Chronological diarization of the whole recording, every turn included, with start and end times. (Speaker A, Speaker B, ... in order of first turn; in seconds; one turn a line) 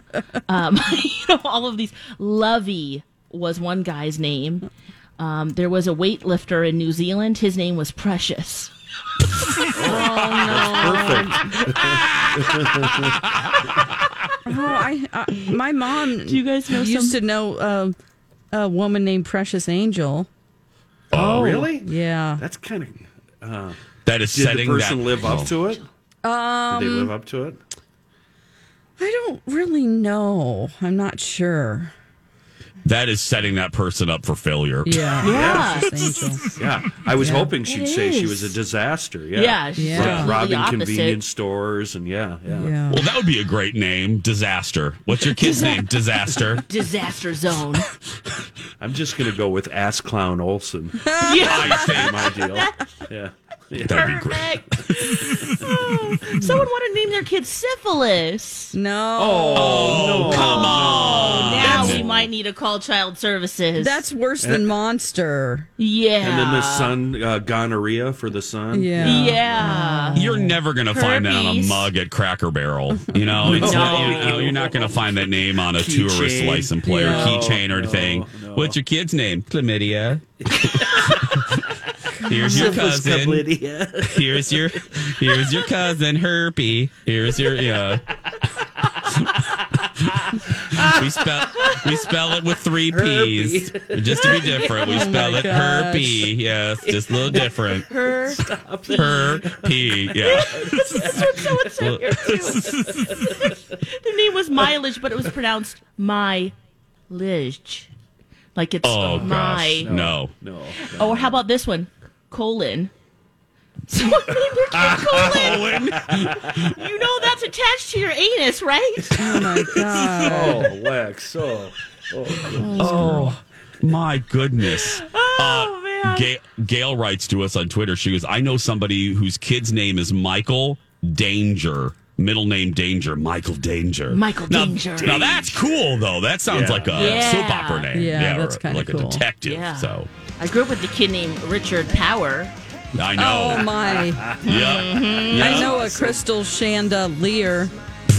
Speaker A: 0.5-8.7
Speaker B: 9.8-13.2
Speaker C: 9.8-11.6
Speaker C: 14.4-18.0
Speaker A: 16.2-17.2
Speaker C: 18.5-20.3
Speaker B: 21.1-25.9
Speaker D: 21.1-21.5
Speaker A: 21.4-21.7
Speaker C: 21.4-22.4
Speaker D: 24.0-25.6
Speaker C: 26.2-27.1
Speaker B: 26.7-27.6
Speaker C: 29.0-31.9
Speaker D: 32.8-35.1
Speaker C: 34.8-36.6
Speaker A: 35.2-36.2
Speaker B: 35.2-42.8
Speaker C: 37.2-37.5
Speaker A: 37.6-38.6
Speaker A: 39.3-41.2
Speaker C: 39.8-40.4
Speaker C: 42.5-43.1
Speaker D: 42.9-46.6
Speaker A: 45.4-45.8
Speaker A: 46.5-47.9
Speaker B: 48.8-54.1
Speaker C: 51.0-51.6
Speaker A: 51.1-52.9
Speaker D: 51.4-52.3
Speaker D: 53.8-54.5
Speaker A: 53.8-58.8
Speaker C: 58.7-60.2
Speaker B: 59.2-62.3
Speaker D: 59.6-62.0
Speaker A: 60.2-64.0
Speaker C: 63.8-65.7
Speaker B: 64.4-64.8
Speaker A: 65.8-67.0
Speaker B: 66.2-69.8
Speaker C: 68.7-70.6
Speaker A: 69.0-70.3
Speaker D: 70.2-81.5
Speaker A: 70.9-71.9
Speaker C: 73.1-73.8
Speaker B: 73.4-78.8
Speaker A: 73.5-74.6
Speaker C: 76.8-77.4
Speaker B: 80.5-81.5
Speaker C: 82.2-82.8
Speaker B: 82.2-85.7
Speaker D: 82.3-83.5
Speaker D: 84.0-88.0
Speaker B: 87.4-88.0
Speaker B: 89.3-91.9
Speaker D: 90.9-98.4
Speaker B: 92.9-95.6
Speaker A: 94.4-94.8
Speaker C: 94.8-96.3
Speaker B: 96.8-103.5
Speaker A: 97.9-99.3
Speaker D: 98.9-101.1
Speaker A: 100.2-106.5
Speaker D: 101.8-103.0
Speaker A: 107.1-107.9
Speaker A: 108.5-109.9
Speaker D: 108.8-110.4
Speaker B: 109.1-111.4
Speaker A: 110.8-112.9
Speaker A: 113.9-115.7
Speaker B: 114.7-116.6
Speaker D: 115.3-116.7
Speaker A: 116.5-119.2
Speaker B: 119.1-123.3
Speaker C: 119.2-120.7
Speaker C: 122.5-123.3
Speaker D: 122.8-140.1
Speaker A: 124.7-126.3
Speaker A: 134.1-135.3
Speaker B: 135.0-135.5
Speaker B: 136.5-137.2
Speaker A: 136.9-137.9
Speaker C: 137.9-139.2
Speaker A: 139.4-142.5
Speaker D: 142.9-143.6
Speaker C: 143.2-144.3
Speaker B: 143.6-144.7
Speaker A: 144.4-146.2
Speaker D: 144.5-145.6
Speaker B: 145.3-146.0
Speaker C: 145.3-147.7